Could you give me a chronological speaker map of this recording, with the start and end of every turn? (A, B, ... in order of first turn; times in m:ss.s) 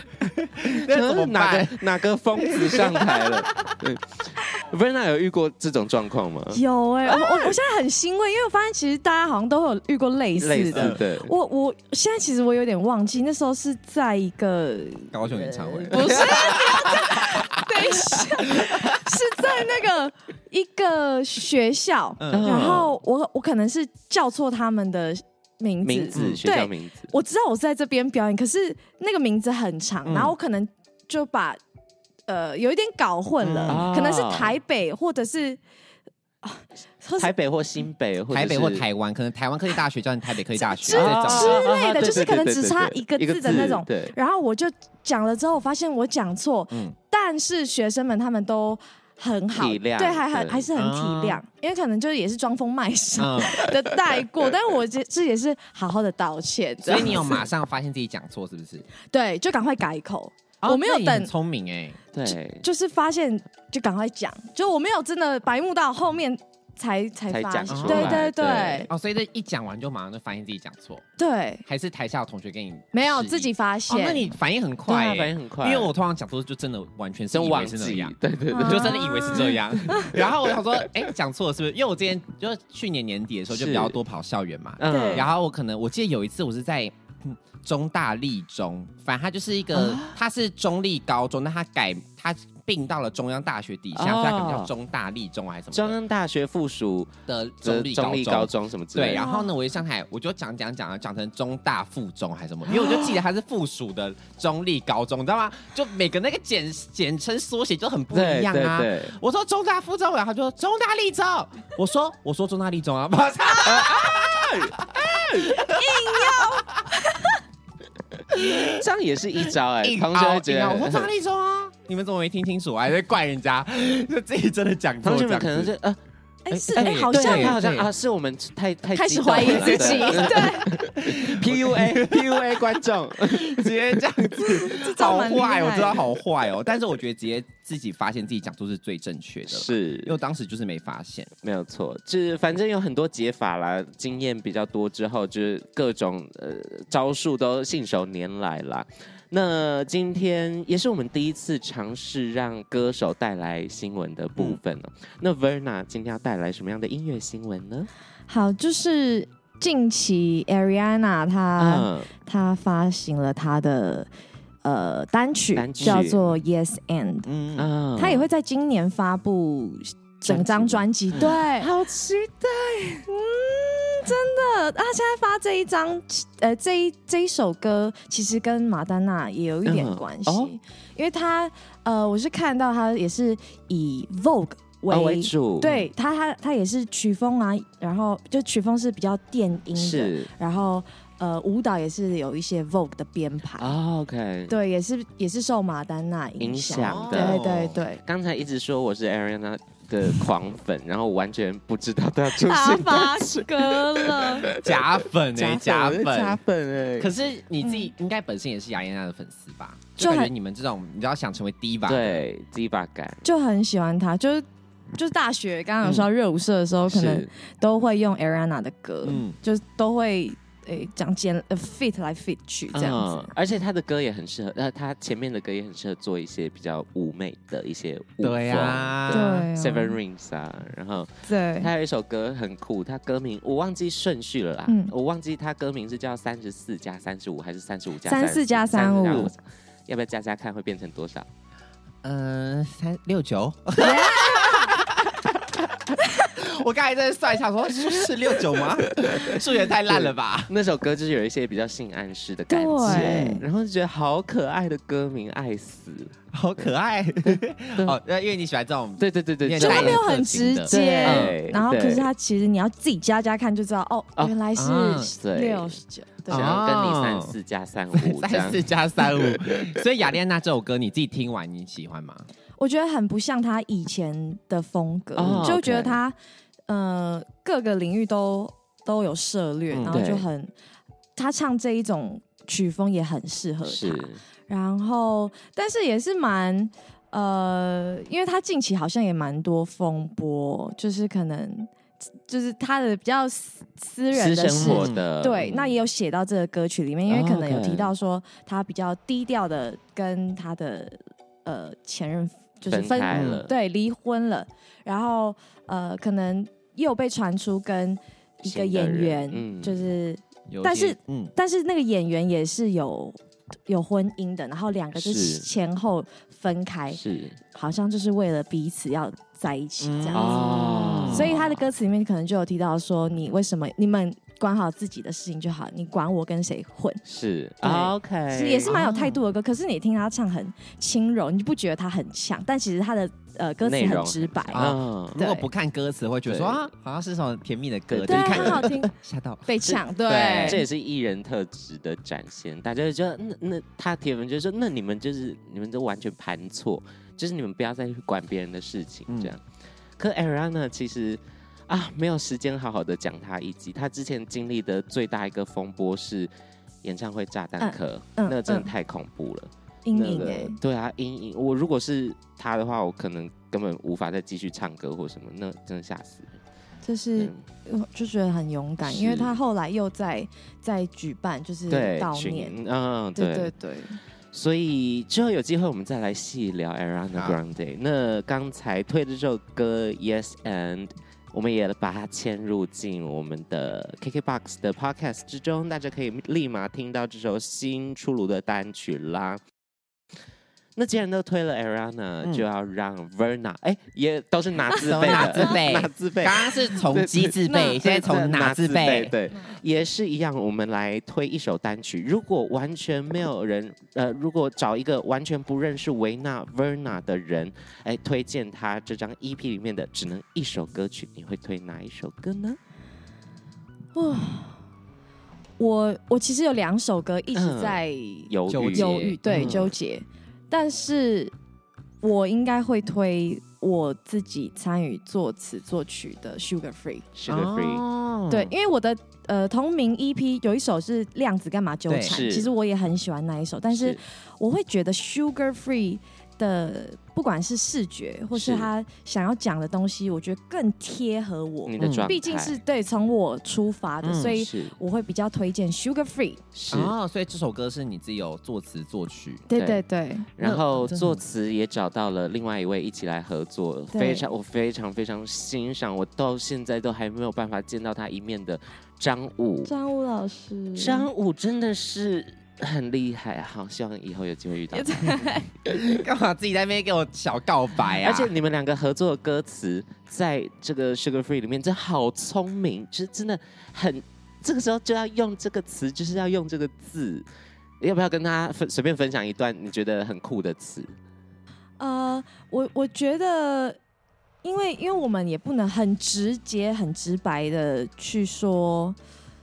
0:00.2-0:01.8 A
0:00.7-0:06.6 B
0:02.4-0:03.7 A
0:06.5-0:31.6 C
0:10.4-0:11.3 B
0:10.7-0:11.0 A
0:15.1-0:17.6 A
0:16.0-0:16.6 B
0:18.5-0:18.8 A
0:22.2-0:22.6 A
0:22.3-0:23.0 B
0:25.8-0:27.1 B
0:26.2-0:26.4 A
0:30.1-0:30.4 A
0:32.3-0:35.6 C
0:33.4-0:33.9 A
0:33.7-0:34.6 B
0:36.4-0:37.3 C
0:37.2-0:38.9 B
0:38.3-0:41.7 A
0:40.6-0:57.4 C
0:40.9-0:44.1 B
0:49.5-0:50.7 B
0:50.8-0:51.4 A
0:53.2-0:53.7 A
0:56.8-0:58.9 A
0:59.1-1:01.3 C
1:00.6-1:02.0 A
1:02.1-1:02.6 B
1:02.3-1:08.9 C
1:07.3-1:08.9 B
1:07.7-1:08.3 A
1:08.9-1:11.1 A
1:11.2-1:11.6 C
1:11.7-1:36.0 A
1:12.9-1:14.3 C
1:14.9-1:15.9 B
1:17.3-1:21.0 B
1:18.5-1:20.1 C
1:23.5-1:24.0 B
1:24.8-1:25.3 B
1:24.9-1:25.2 C
1:29.7-1:30.2 B
1:34.0-1:34.7 B
1:35.7-1:39.2 B
1:37.3-1:56.8 A
1:39.1-1:39.5 C
1:42.7-1:43.1 B
1:48.1-1:49.2 B
1:53.6-1:55.7 B
1:55.6-1:57.4 C
1:58.1-2:01.1 B
1:58.3-1:58.8 A
1:59.8-2:05.7 A
2:05.0-2:06.0 B
2:06.4-2:07.6 C
2:06.5-2:07.9 A
2:06.8-2:14.5 B
2:08.9-2:10.7 C
2:09.4-2:12.5 A
2:13.2-2:21.3 A
2:14.6-2:16.1 C
2:19.5-2:20.2 B
2:21.4-2:37.9 B
2:38.3-2:44.1 C
2:41.6-2:42.1 B
2:44.6-2:47.3 C
2:45.6-2:46.4 B
2:47.3-2:47.7 A
2:47.6-2:48.3 B
2:48.0-2:51.7 C
2:50.3-2:53.1 B
2:53.1-3:13.7 C
2:59.7-3:00.5 B
3:04.9-3:05.9 B
3:09.7-3:10.3 B
3:13.6-3:14.5 B
3:14.5-3:18.0 C
3:16.4-3:17.4 B
3:16.8-3:17.8 A
3:18.0-3:27.1 B
3:22.4-3:24.5 C
3:24.5-3:26.4 A
3:27.0-3:32.2 A
3:27.6-3:27.9 C
3:30.0-3:30.3 C
3:31.9-3:33.3 B
3:33.2-3:43.3 C
3:36.9-3:37.3 B
3:39.0-3:39.4 A
3:42.7-4:01.3 B
3:48.2-3:49.4 A
3:49.1-3:50.0 C
3:51.3-3:51.7 C
3:54.7-3:54.9 C
3:58.0-3:59.3 C
4:02.0-4:10.5 A
4:03.8-4:04.7 C
4:08.6-4:16.7 B
4:12.5-4:13.3 C
4:12.8-4:13.4 A
4:16.3-4:21.4 A
4:17.3-4:18.0 B
4:19.0-4:22.1 B
4:19.6-4:26.5 C
4:24.6-4:25.1 A
4:25.2-4:25.8 B
4:26.3-4:27.4 A
4:26.3-4:29.8 B
4:27.9-4:32.3 A
4:32.6-4:36.2 C
4:35.2-4:36.0 B
4:35.2-4:35.5 A
4:36.7-4:40.5 C
4:39.7-4:40.0 A
4:39.9-4:40.3 B
4:41.2-4:51.7 C
4:43.6-4:44.2 B
4:52.3-5:17.0 C
4:54.1-4:55.8 B
4:54.5-4:55.0 A
4:57.1-4:57.9 B
5:02.7-5:03.5 B
5:03.1-5:03.4 A
5:08.4-5:09.8 B
5:10.5-5:11.3 A
5:15.0-5:15.5 B
5:16.9-5:17.4 B
5:17.5-5:27.0 C
5:19.8-5:21.4 A
5:20.1-5:21.6 B
5:27.0-5:28.7 B
5:27.6-5:35.5 C
5:28.7-5:29.2 A
5:33.6-5:35.2 B
5:34.5-5:40.6 A
5:36.3-5:36.7 B
5:37.9-5:38.7 B
5:38.1-5:38.9 C
5:39.5-5:40.6 C
5:40.4-5:49.4 B
5:49.1-5:49.3 A
5:50.0-5:56.3 B
5:56.8-6:06.4 B
5:57.6-5:58.7 C
5:59.8-6:00.6 C
6:06.8-6:12.6 C
6:07.2-6:07.4 B
6:08.8-6:09.4 B
6:11.7-6:13.5 B
6:13.2-6:14.0 C
6:14.3-6:29.4 B
6:30.8-6:52.6 B
6:34.8-6:35.5 C
6:34.8-6:39.1 A
6:37.5-6:37.8 C
6:53.9-6:54.6 C
6:55.6-7:01.3 C
6:57.3-6:59.7 B
6:58.5-6:59.6 A
7:02.0-7:07.1 C
7:07.2-7:07.8 B
7:07.3-7:08.5 A
7:08.3-7:26.4 C
7:11.9-7:12.2 A
7:12.1-7:12.5 B
7:13.7-7:14.0 B
7:18.3-7:18.7 B
7:21.7-7:22.6 B
7:21.8-7:22.1 A
7:24.0-7:24.4 A
7:24.3-7:24.8 B
7:26.5-7:26.9 B
7:26.7-7:29.4 A
7:29.5-7:30.3 C
7:29.6-7:29.8 B
7:30.4-7:39.7 B
7:30.4-7:31.2 A
7:33.9-7:34.3 C
7:39.7-7:41.1 C
7:40.8-7:45.7 B
7:44.7-7:45.5 C
7:45.7-7:48.3 A
7:48.0-7:57.3 B
7:57.8-8:00.9 B
8:01.8-8:03.8 C
8:04.4-8:09.0 C